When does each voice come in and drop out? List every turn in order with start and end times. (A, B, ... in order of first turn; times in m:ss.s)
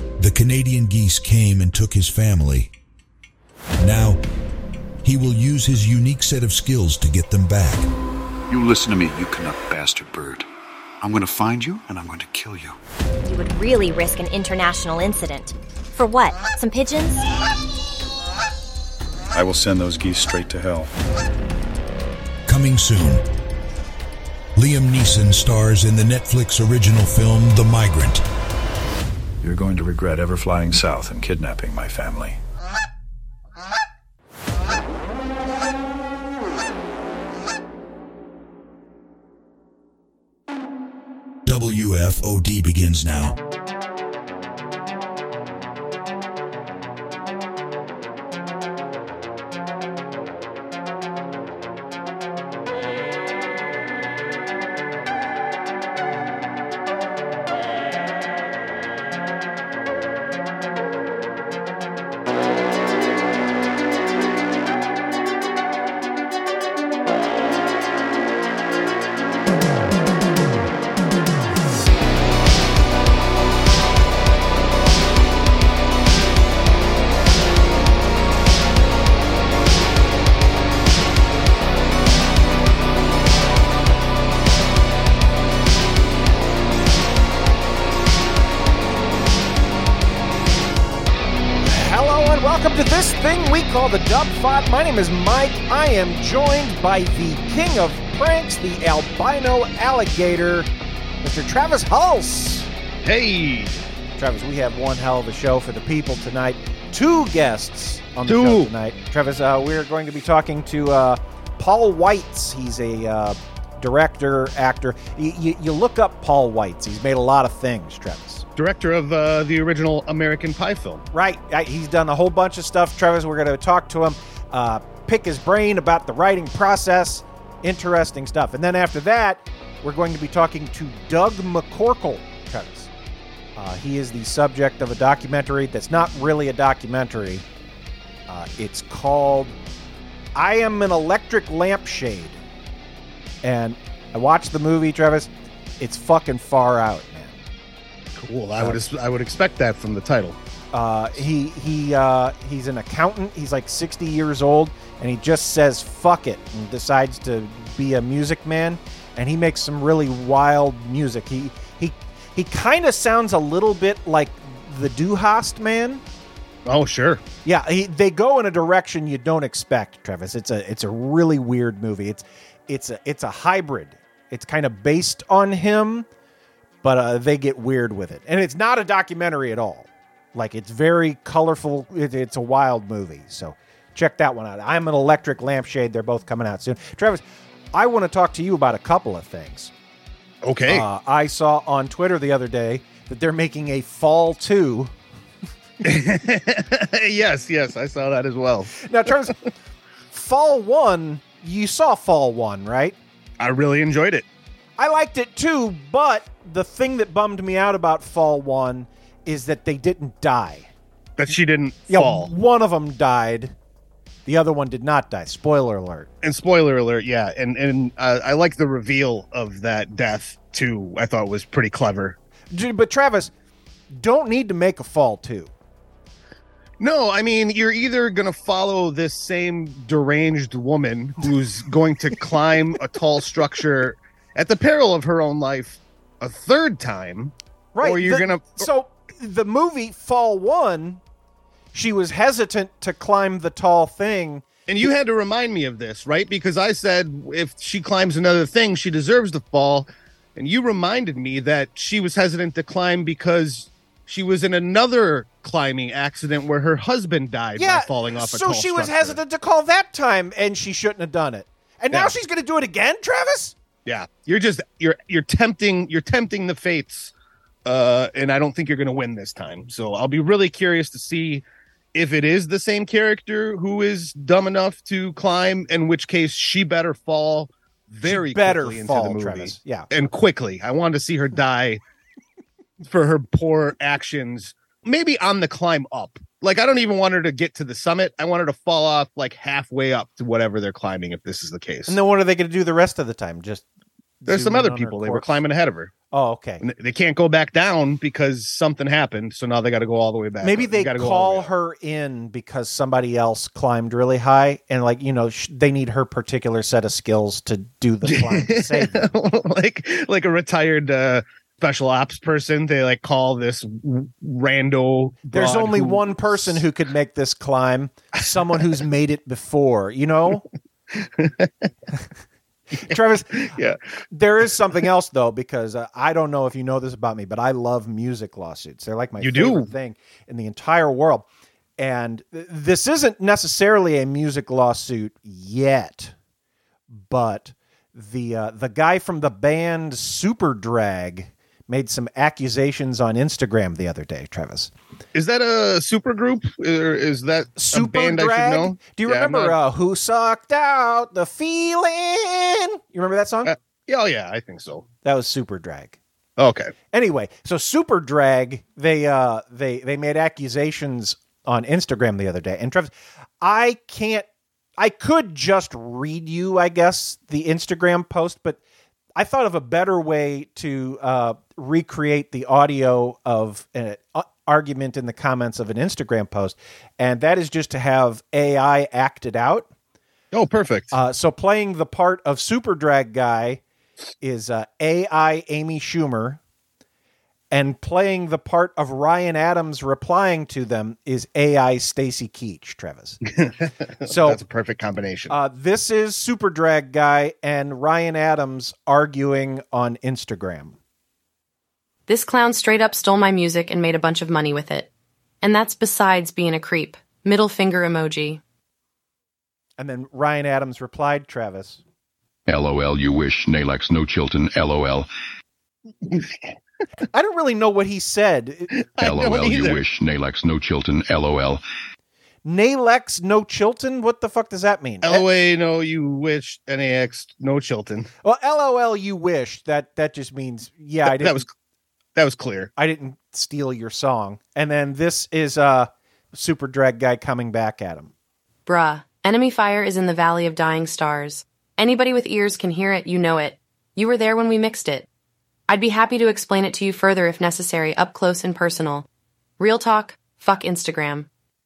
0:00.2-0:02.7 A
0:03.8-0:04.2 A
0:05.0-0:07.8 A
0:13.2-0:17.3 B
0:22.5-0:23.2 A
0:24.6-0:28.2 A
0:29.4-0:32.3 C
0:41.5-0:43.4 A
1:31.6-1:40.7 D
1:41.2-1:42.7 D
1:43.0-1:43.7 E
1:44.2-1:58.4 D
1:48.3-1:48.7 E
1:58.6-2:01.0 E
2:01.1-2:12.9 D
2:13.6-2:17.4 D
2:18.3-2:19.5 D
2:20.4-2:22.4 D
2:23.4-2:27.4 D
2:28.2-2:30.4 E
2:30.7-2:46.0 D
2:46.6-2:47.2 E
2:47.4-2:56.1 D
2:56.8-3:09.7 D
3:10.4-3:10.8 E
3:10.7-3:14.9 D
3:15.8-3:18.7 E
3:18.8-3:19.3 D
3:20.1-3:23.0 D
3:23.4-3:24.2 E
3:24.8-3:30.7 D
3:31.2-3:32.3 E
3:31.9-3:33.5 D
3:34.2-3:36.1 D
3:36.2-3:42.2 E
3:42.5-3:43.3 D
3:43.9-3:45.5 D
3:46.8-3:58.6 E
3:57.7-4:01.0 D
4:01.7-4:04.4 D
4:04.7-4:19.2 E
4:17.6-4:23.5 D
4:23.8-4:27.1 E
4:27.6-4:41.8 E
4:38.0-4:39.9 D
4:42.8-4:51.9 E
4:51.9-4:53.6 D
4:54.2-4:55.4 D
4:54.3-4:55.9 E
4:56.1-4:56.6 D
4:56.6-5:01.5 E
5:00.4-5:09.1 D
5:08.0-5:16.6 E
5:15.3-5:20.4 D
5:20.9-5:21.7 E
5:22.8-5:23.3 D
5:22.9-5:23.8 E
5:24.1-5:31.3 D
5:29.2-5:29.7 E
5:31.8-5:36.1 D
5:36.9-5:44.7 D
5:45.1-5:49.5 E
5:47.6-5:53.5 D
5:53.4-5:54.8 E
5:55.0-5:56.0 D
5:56.4-5:56.7 E
5:56.9-6:04.3 D
6:04.8-6:08.6 D
6:09.2-6:19.7 D
6:20.3-6:20.9 E
6:20.9-6:23.6 D
6:24.2-6:26.4 D
6:27.5-6:33.2 D
6:33.3-6:35.4 E
6:34.0-6:34.4 D
6:35.3-6:40.8 D
6:42.1-6:44.9 F
6:45.4-6:48.4 F
6:49.8-6:51.8 D
6:52.5-6:55.1 G
6:56.0-6:56.4 E
6:57.1-6:58.7 D
6:58.7-6:59.8 E
6:59.0-7:01.6 G
7:02.4-7:05.3 D
7:05.0-7:08.1 E
7:08.2-7:11.4 D
7:11.0-7:11.5 E
7:12.2-7:12.7 E
7:12.8-7:18.1 D
7:18.7-7:25.1 F
7:25.7-7:29.0 F
7:29.6-7:31.3 F